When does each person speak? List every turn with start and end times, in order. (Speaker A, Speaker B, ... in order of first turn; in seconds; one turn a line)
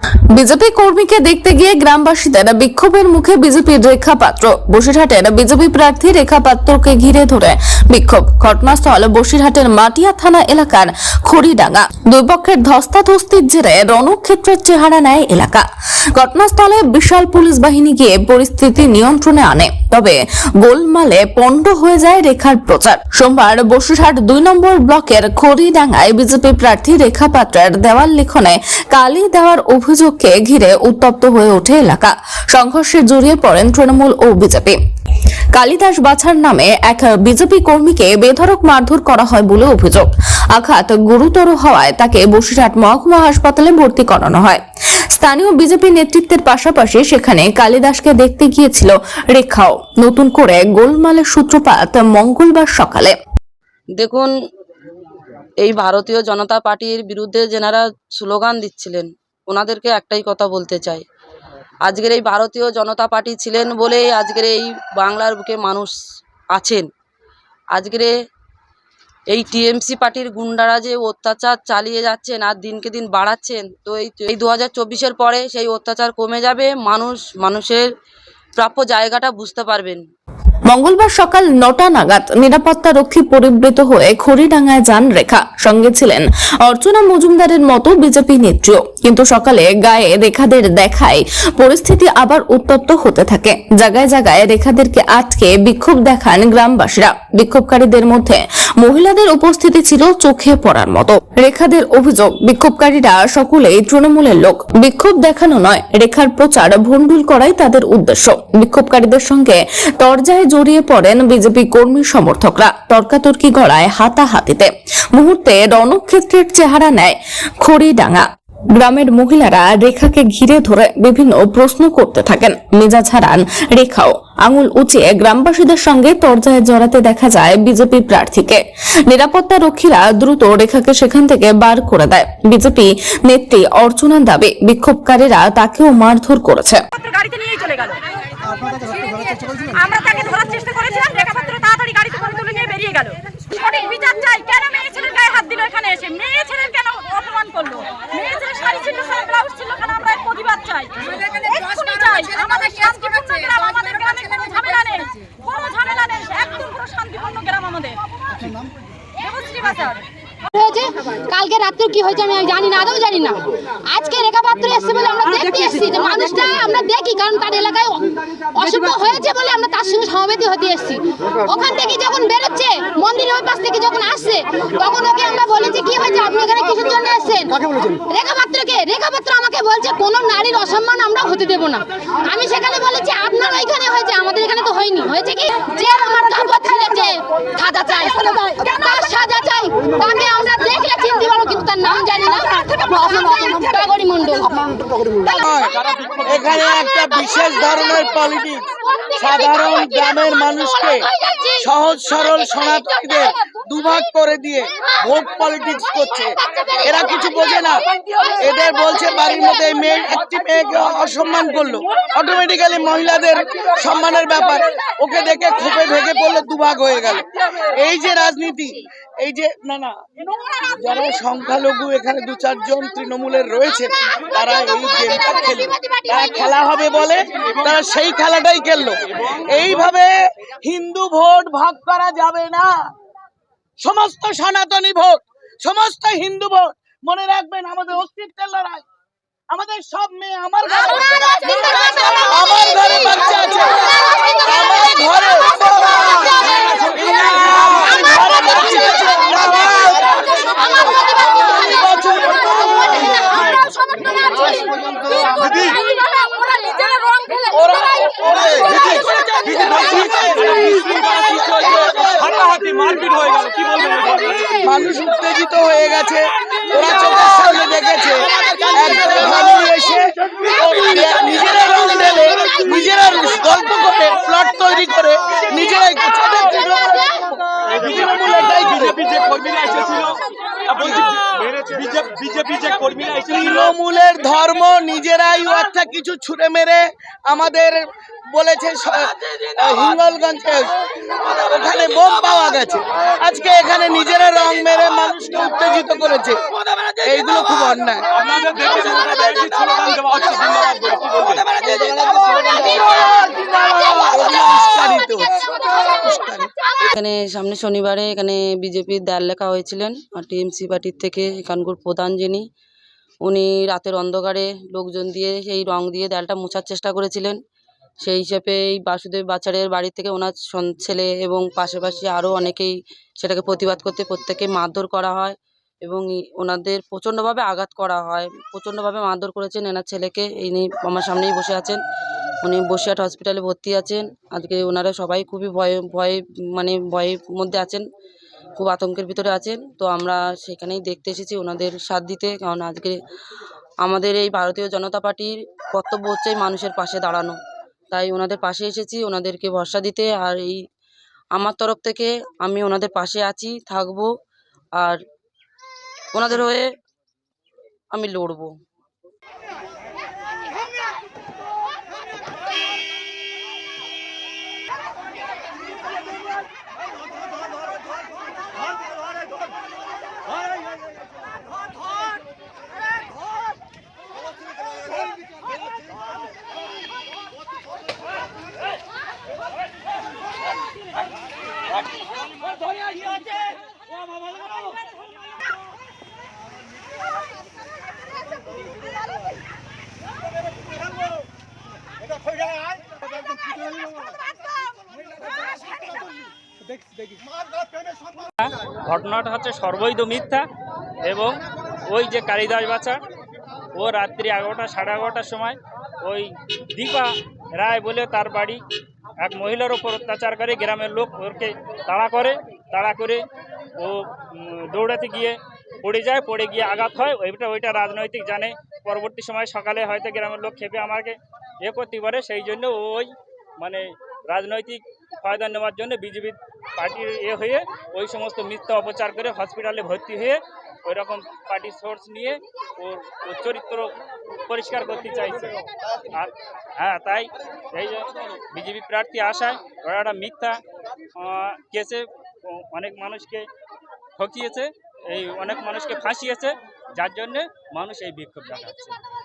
Speaker A: 0.3-34.8
Speaker A: 35.5-44.6
Speaker A: 45.1-53.1
Speaker B: 54.0-54.3
Speaker B: 55.6-61.0
Speaker B: 61.8-65.9
Speaker B: 66.5-66.9
Speaker B: 67.7-68.1
Speaker B: 69.3-77.9
Speaker B: 78.6-80.0
Speaker A: 80.7-136.8
Speaker C: 136.9-158.5
Speaker C: 159.2-160.0
Speaker D: 160.5-195.3
Speaker E: 195.3-207.8
Speaker F: 195.9-196.2
Speaker D: 199.6-199.9
Speaker D: 201.1-201.6
Speaker D: 208.0-208.4
Speaker E: 208.4-219.9
Speaker E: 220.7-232.7
Speaker D: 225.8-226.1
Speaker E: 233.8-238.8
Speaker E: 239.5-253.7
Speaker D: 243.9-244.9
Speaker D: 246.0-248.3
Speaker D: 250.7-251.9
Speaker D: 254.0-257.4
Speaker E: 257.5-260.6
Speaker F: 258.8-264.5
Speaker E: 261.2-262.1
Speaker E: 264.6-279.1
Speaker F: 279.0-280.2
Speaker F: 281.6-283.3
Speaker E: 283.3-296.4
Speaker E: 297.0-298.1
Speaker F: 298.2-301.4
Speaker E: 301.6-306.5
Speaker B: 306.8-312.4
Speaker B: 313.2-317.4
Speaker B: 318.0-331.8
Speaker B: 332.4-337.8
Speaker B: 338.6-343.0
Speaker B: 343.8-347.4
Speaker B: 347.9-350.6
Speaker B: 351.3-354.1
Speaker B: 356.1-356.7
Speaker B: 357.9-358.5
Speaker G: 398.4-400.4
Speaker G: 401.0-403.0
Speaker G: 403.7-408.6
Speaker G: 409.2-413.2
Speaker G: 413.8-433.9
Speaker G: 434.5-435.6
Speaker G: 436.1-440.6
Speaker G: 441.2-443.5
Speaker G: 444.2-448.9